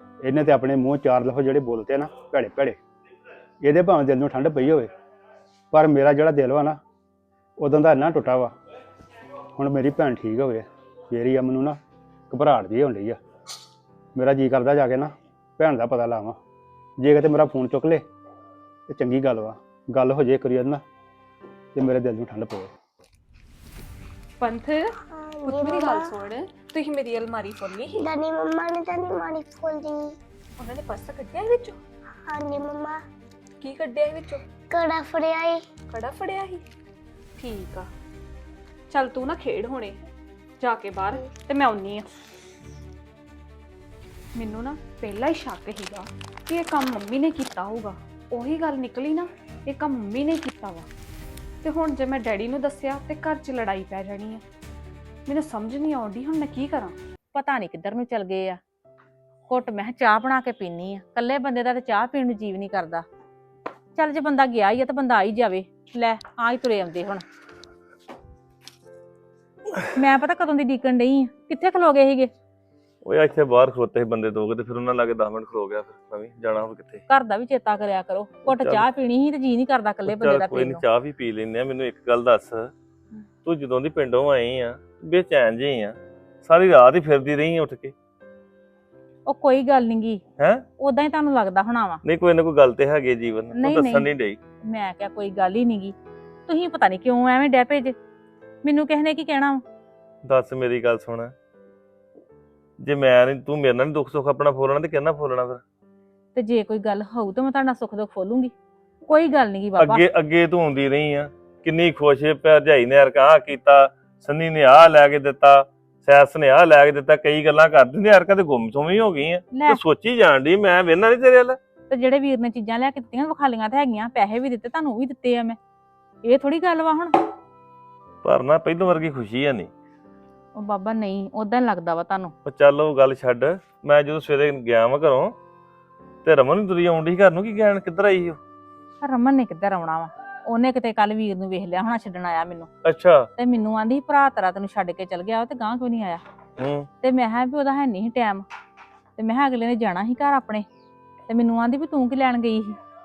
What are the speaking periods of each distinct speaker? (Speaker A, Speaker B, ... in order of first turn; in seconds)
Speaker A: 0.2-2.8, 3.6-4.9, 5.7-6.8, 7.6-8.5, 9.6-11.8, 12.3-13.2, 14.1-16.4, 17.0-18.0, 18.9-20.8, 21.7-22.7
Speaker B: 24.4-24.9, 25.4-28.0, 30.6-31.8, 33.6-34.4, 35.9-36.6, 37.4-37.9, 38.9-40.0, 40.6-42.2, 44.3-50.9, 51.6-54.4, 55.3-56.9
Speaker C: 25.0-26.2, 27.9-30.2, 32.2-33.0, 34.7-35.6
Speaker D: 57.3-58.6, 59.5-63.0, 63.9-67.2, 69.9-72.3, 77.1-80.8, 89.3-90.2, 90.8-92.0, 93.5-94.1, 94.7-95.9, 96.5-97.9, 98.6-99.6, 106.3-108.5, 109.1-110.0, 119.5-119.8, 121.9-125.6, 126.2-127.1, 130.6-132.3, 139.0-142.7, 143.4-146.2, 147.0-148.4, 149.2-150.6, 151.3-152.8
Speaker E: 73.0-77.0, 78.5-78.8, 80.0-82.7, 83.4-87.9, 90.4-90.6, 92.0-94.4, 100.2-101.3, 102.8-105.6, 109.8-121.6, 128.2-129.7, 132.4-135.3, 136.2-138.4, 142.8-143.3, 146.6-146.9